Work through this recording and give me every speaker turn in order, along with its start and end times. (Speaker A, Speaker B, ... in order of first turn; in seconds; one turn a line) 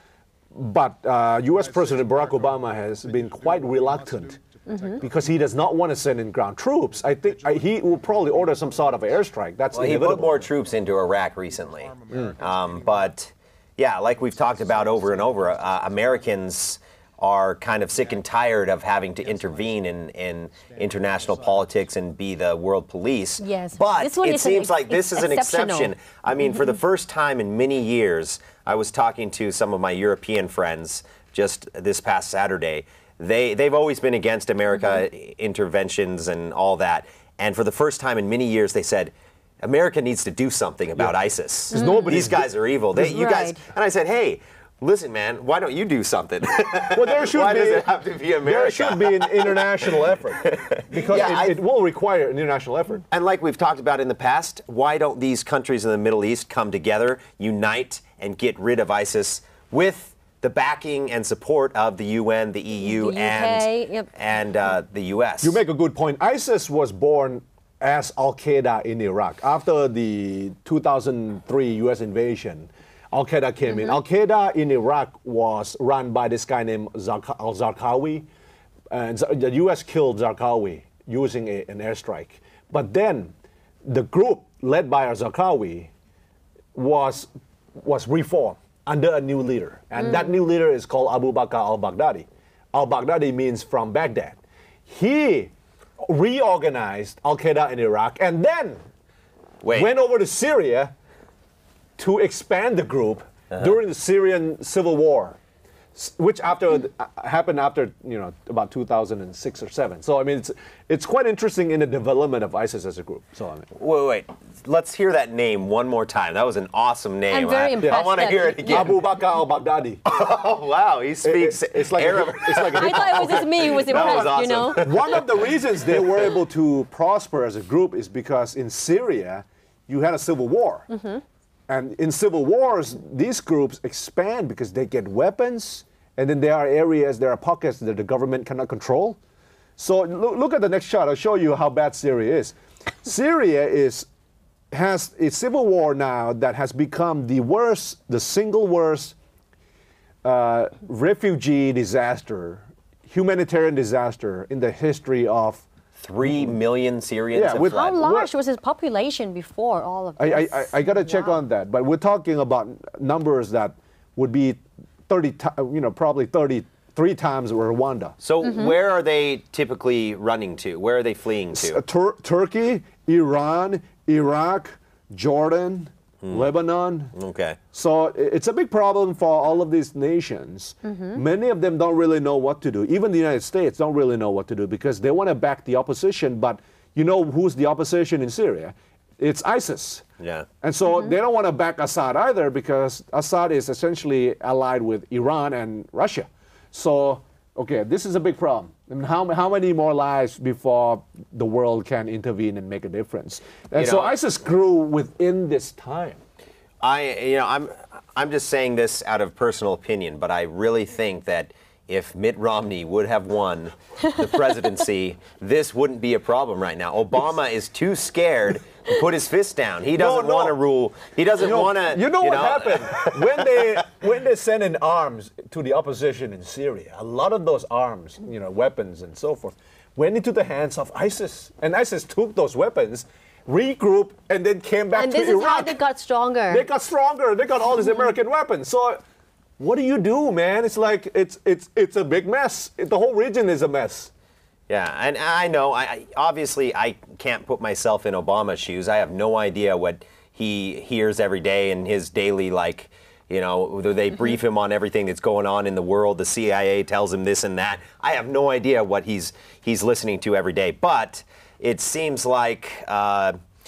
Speaker A: 0.5-4.5
Speaker B: 4.7-5.0
Speaker A: 5.0-10.5
Speaker C: 9.7-49.6
Speaker A: 12.1-12.4
Speaker B: 23.4-25.9
Speaker A: 41.7-42.5
Speaker B: 41.7-42.1
Speaker B: 43.0-43.6
Speaker A: 46.9-47.9
Speaker A: 48.4-53.0
Speaker C: 50.4-51.6
Speaker C: 53.1-65.6
Speaker B: 62.8-64.1
Speaker A: 65.4-78.3
Speaker B: 73.7-74.0
Speaker A: 78.9-83.3
Speaker A: 83.8-85.9
Speaker A: 86.7-98.8
Speaker C: 99.6-99.9
Speaker A: 99.7-100.9
Speaker A: 102.0-105.4
Speaker A: 106.0-113.7
Speaker C: 113.8-119.0
Speaker B: 117.3-119.0
Speaker A: 117.8-118.1
Speaker A: 118.7-120.0
Speaker C: 120.0-125.2
Speaker A: 121.2-130.9
Speaker B: 122.6-125.0
Speaker B: 130.9-131.2
Speaker A: 131.7-139.2
Speaker A: 139.8-144.1
Speaker A: 144.7-149.2
Speaker A: 150.2-155.7
Speaker C: 156.0-158.0
Speaker A: 157.3-158.3
Speaker B: 157.6-161.4
Speaker A: 160.2-168.2
Speaker C: 168.2-171.8
Speaker B: 168.4-168.8
Speaker A: 171.5-177.1
Speaker C: 176.2-176.5
Speaker C: 177.1-177.6
Speaker A: 177.7-190.1
Speaker B: 180.8-181.2
Speaker C: 190.2-190.5
Speaker A: 190.6-206.2
Speaker C: 203.8-204.1
Speaker C: 206.8-223.8
Speaker A: 219.9-220.6
Speaker A: 221.4-235.8
Speaker B: 234.9-236.7
Speaker A: 236.5-239.0
Speaker A: 239.6-244.1
Speaker C: 244.7-263.4